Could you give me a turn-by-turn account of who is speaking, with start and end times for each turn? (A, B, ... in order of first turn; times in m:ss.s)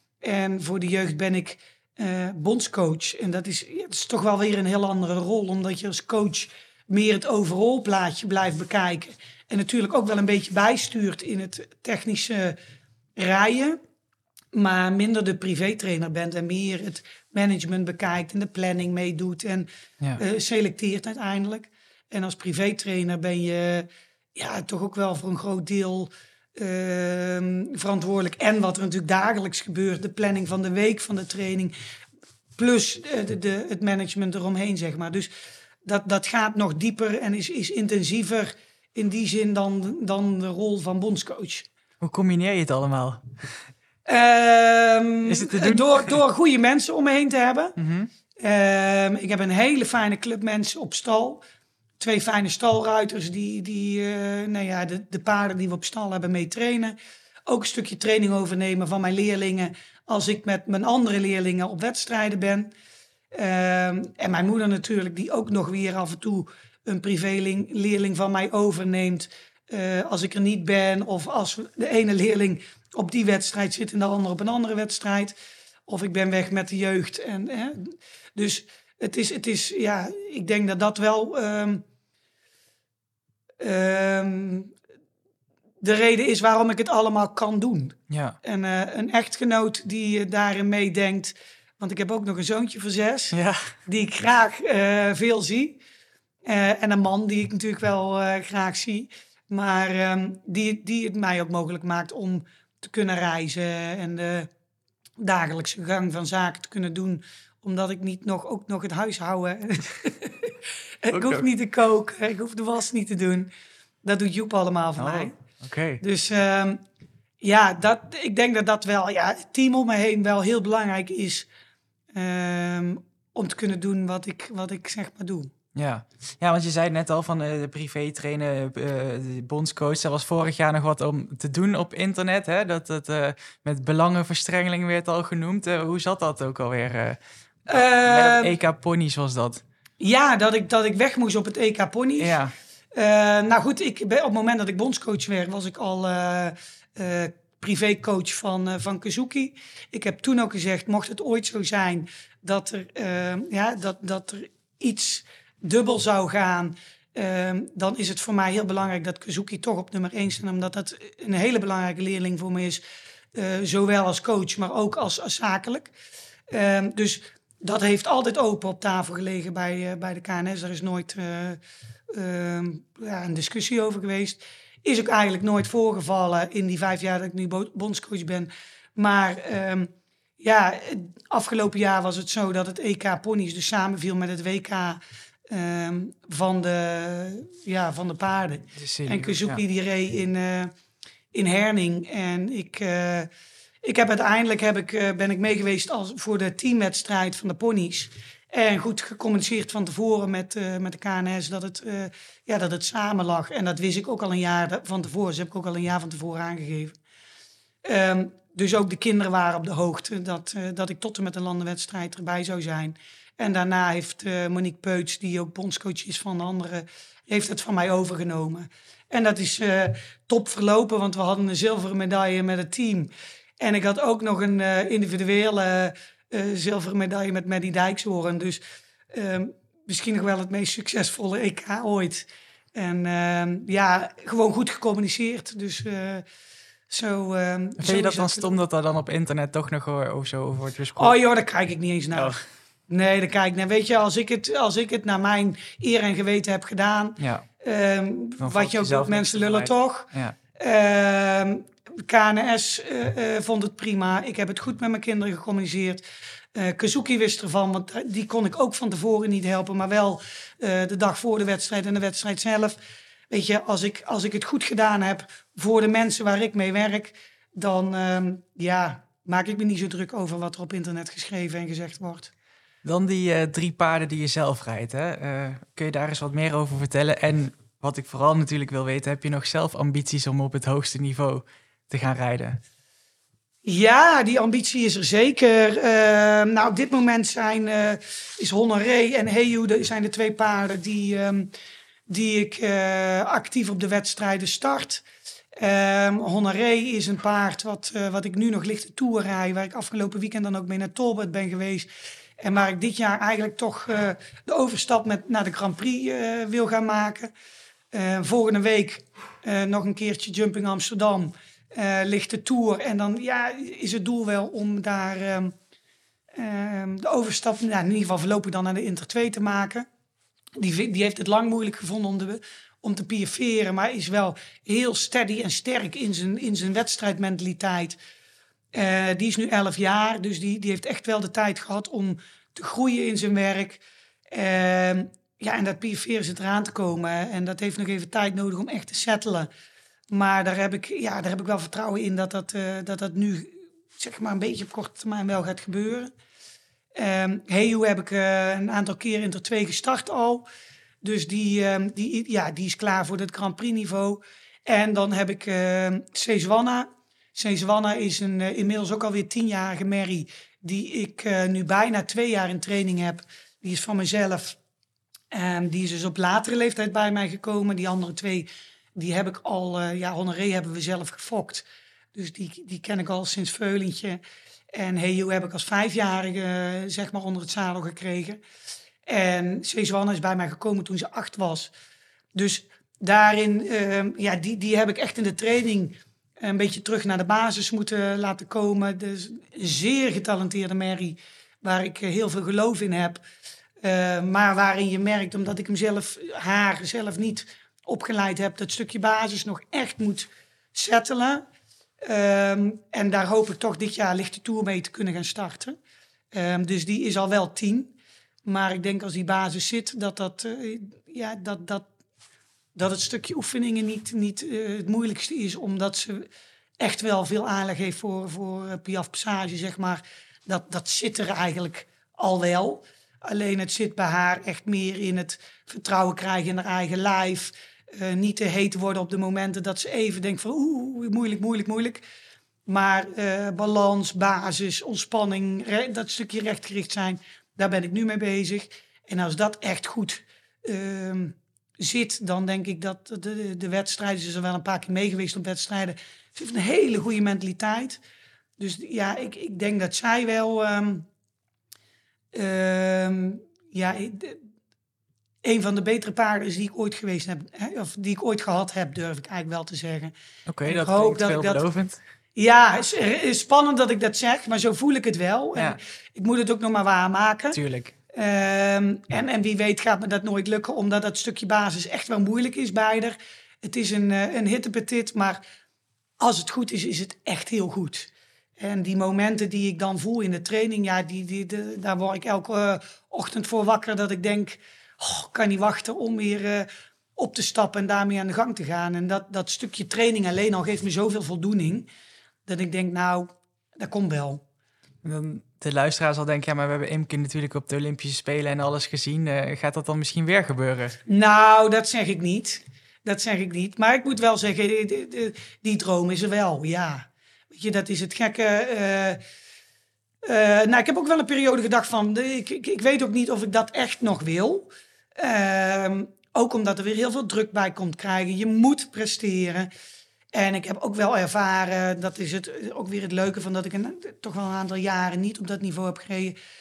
0:00.2-0:12.6 A
0:13.2-0:13.8 A
0:14.5-0:31.7 A
0:32.6-0:35.3 A
0:35.8-0:41.7 A
0:42.0-0:43.6 B
0:44.1-0:47.8 A
0:45.3-0:46.2 B
0:47.8-0:48.1 B
0:48.4-0:51.4 A
0:52.0-0:57.0 A
0:57.5-1:02.7 A
1:03.3-1:15.4 A
1:15.9-1:21.8 A
1:23.6-1:24.7 A
1:25.8-1:35.8 A
1:28.1-1:28.4 B
1:33.3-1:33.7 B
1:36.5-1:44.5 A
1:45.2-1:53.5 A
1:51.1-1:51.5 B
1:54.0-1:55.3 A
1:55.0-1:56.0 B
1:56.0-1:56.8 A
1:57.4-2:01.5 A
2:02.1-2:05.5 A
2:05.8-2:17.2 B
2:17.7-2:18.6 A
2:17.7-2:19.6 B
2:20.0-2:22.4 A
2:22.2-2:22.5 B
2:22.9-2:42.8 A
2:43.4-2:45.9 A
2:46.5-2:51.6 A
2:52.1-3:10.7 A
3:08.8-3:09.6 B
3:11.3-3:13.3 A
3:13.8-3:27.0 A
3:27.8-3:56.2 A
3:56.9-3:58.5 A
3:57.8-4:01.2 B
4:01.0-4:02.4 A
4:02.9-4:22.8 A
4:07.2-4:07.4 B
4:08.4-4:10.4 B
4:23.3-4:32.3 A
4:32.8-4:42.6 B
4:43.6-4:51.5 A
4:52.1-4:55.0 A
4:55.6-5:01.9 A
5:02.4-5:07.3 A
5:07.9-5:15.5 A
5:16.3-5:19.9 A
5:20.6-5:28.0 A
5:28.7-5:39.5 A
5:40.1-5:46.1 A
5:47.0-5:50.5 A
5:51.0-6:04.6 A
6:05.3-6:14.2 A
6:14.7-6:18.4 A
6:19.1-6:21.7 A
6:22.4-6:33.2 A
6:33.8-6:41.4 A
6:42.0-6:45.8 A
6:46.3-6:47.9 A
6:48.4-6:51.9 A
6:52.8-6:56.3 A
6:56.8-7:12.0 A
7:12.7-7:28.0 A
7:28.6-7:31.1 A
7:32.3-7:34.4 A
7:35.4-7:40.1 A
7:40.5-7:42.0 B
7:40.7-7:41.6 A
7:42.4-7:47.6 A
7:47.5-7:47.9 B
7:48.1-7:55.4 A
7:56.2-8:11.9 A
8:12.5-8:14.4 A
8:15.0-8:21.0 B
8:21.1-8:29.2 A
8:30.2-8:39.7 A
8:40.3-8:46.4 A